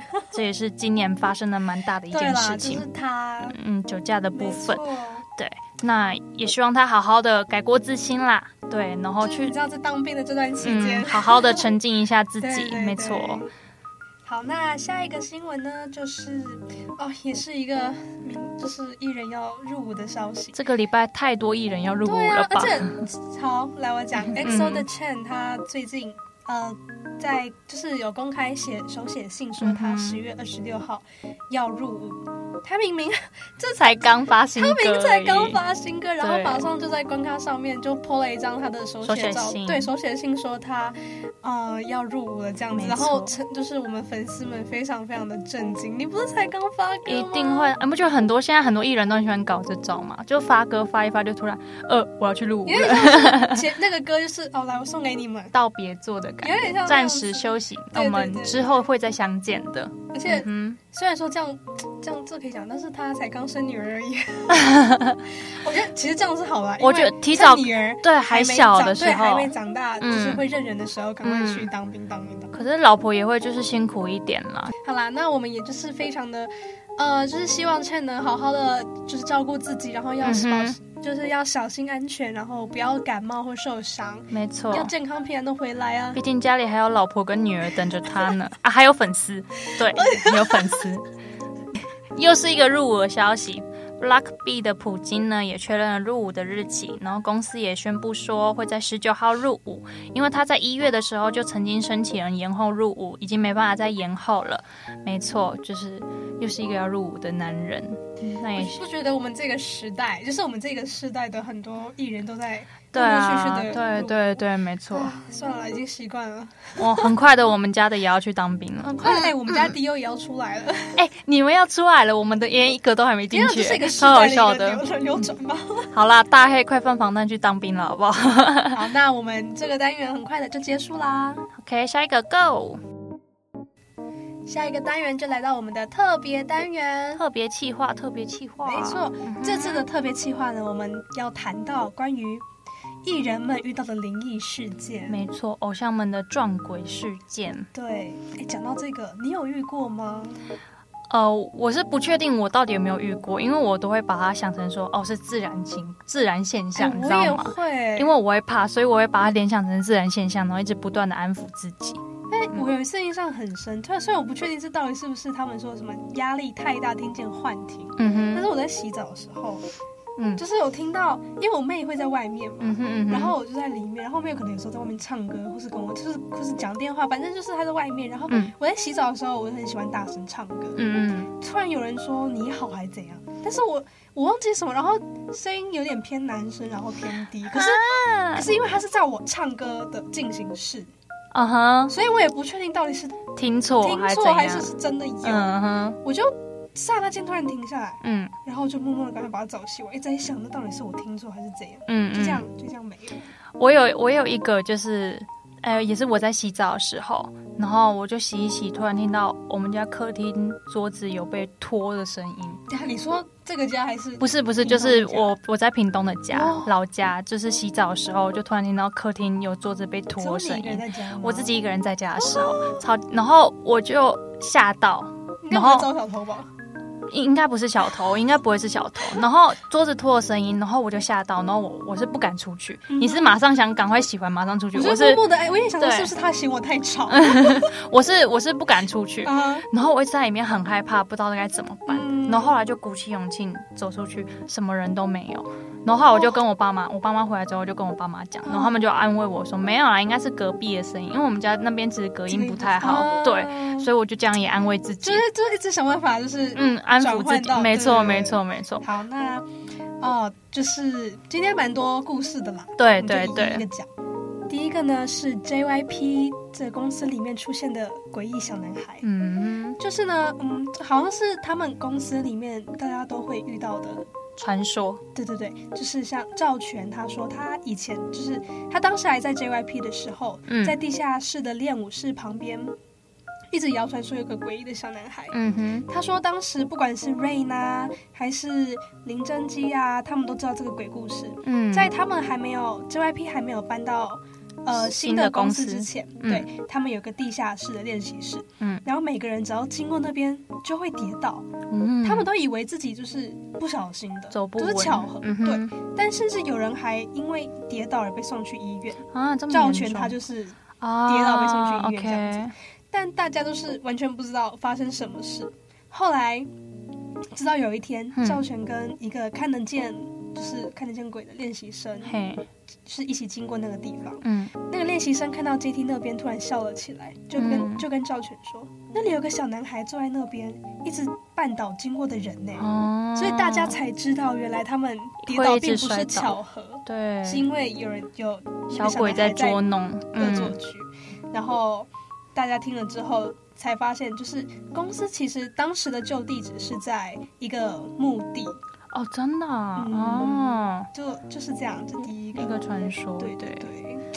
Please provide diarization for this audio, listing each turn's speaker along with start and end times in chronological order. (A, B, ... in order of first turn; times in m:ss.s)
0:00.3-0:02.9 A
0:02.1-0:03.6 B
0:03.4-0:04.8 A
0:04.3-0:05.2 B
0:05.4-0:09.6 A
0:09.2-0:11.7 B
0:10.6-0:13.5 A
0:12.4-0:13.5 B
0:14.2-0:20.6 B
0:20.5-0:23.0 A
0:22.0-0:34.0 B
0:24.3-0:24.8 A
0:29.6-0:30.2 A
0:33.8-0:35.6 A
0:34.5-0:47.7 B
0:36.2-0:36.7 A
0:39.0-0:39.9 A
0:42.7-0:43.3 A
0:47.0-0:53.7 A
0:52.6-0:55.5 B
0:55.5-1:00.8 A
0:56.4-0:58.8 B
1:00.1-1:04.8 B
1:04.5-1:05.2 A
1:05.4-1:12.5 B
1:06.8-1:10.4 A
1:11.2-1:11.7 A
1:12.5-1:14.7 A
1:14.8-1:26.2 B
1:20.2-1:20.8 A
1:24.3-1:24.9 A
1:26.1-1:31.0 A
1:29.9-1:30.8 B
1:32.1-1:48.8 A
1:48.3-1:54.4 B
1:52.9-1:55.1 A
1:54.9-1:57.1 B
1:56.8-1:59.7 A
1:58.8-2:01.0 B
2:01.0-2:04.8 A
2:03.3-2:05.9 B
2:05.9-2:08.8 A
2:08.7-2:11.4 B
2:11.5-2:12.8 A
2:14.4-2:17.2 B
2:17.1-2:19.8 A
2:18.6-2:22.4 B
2:23.0-2:25.2 B
2:25.1-2:27.7 A
2:27.7-2:30.4 B
2:31.1-2:42.7 A
2:36.8-2:38.1 B
2:42.3-2:49.6 B
2:48.0-2:48.5 A
2:50.2-2:50.4 A
2:50.4-3:00.8 B
2:52.6-2:53.4 A
3:00.8-3:01.3 A
3:01.4-3:10.9 B
3:07.5-3:08.5 A
3:11.3-3:11.9 A
3:11.9-3:13.2 B
3:13.4-3:16.0 A
3:13.8-3:23.3 B
3:18.0-3:18.3 A
3:21.9-3:22.4 A
3:23.6-3:32.6 A
3:32.7-3:35.3 B
3:34.2-3:45.9 A
3:36.3-3:36.7 B
3:40.2-3:41.5 B
3:42.3-3:42.8 B
3:45.4-3:46.5 B
3:47.1-3:55.2 A
3:52.9-3:53.4 B
3:54.7-3:57.7 B
3:55.8-3:56.1 A
3:57.1-4:15.2 A
3:59.2-3:59.6 B
4:01.9-4:02.5 B
4:08.4-4:08.8 B
4:12.3-4:13.9 B
4:15.0-4:19.5 B
4:16.5-4:18.8 A
4:20.0-4:23.9 B
4:22.8-4:23.6 A
4:24.5-4:29.0 B
4:29.0-4:29.8 A
4:29.8-4:34.1 B
4:34.4-4:35.0 A
4:35.1-4:42.7 B
4:40.5-4:40.8 A
4:43.5-4:45.4 B
4:45.3-4:45.9 A
4:45.9-5:01.5 B
4:51.4-4:51.9 A
4:54.7-4:56.5 A
5:01.7-5:02.3 A
5:02.0-5:16.5 B
5:04.3-5:05.7 A
5:09.1-5:10.2 A
5:10.8-5:12.5 A
5:17.3-5:22.2 B
5:18.2-5:18.4 A
5:22.0-5:22.5 A
5:22.8-5:39.6 B
5:24.2-5:24.5 A
5:27.4-5:27.8 A
5:32.6-5:33.8 A
5:35.2-5:37.5 A
5:38.7-5:40.6 A
5:40.1-5:48.6 B
5:48.9-5:50.9 A
5:49.8-5:52.6 B
5:52.3-5:53.7 A
5:53.2-5:54.0 B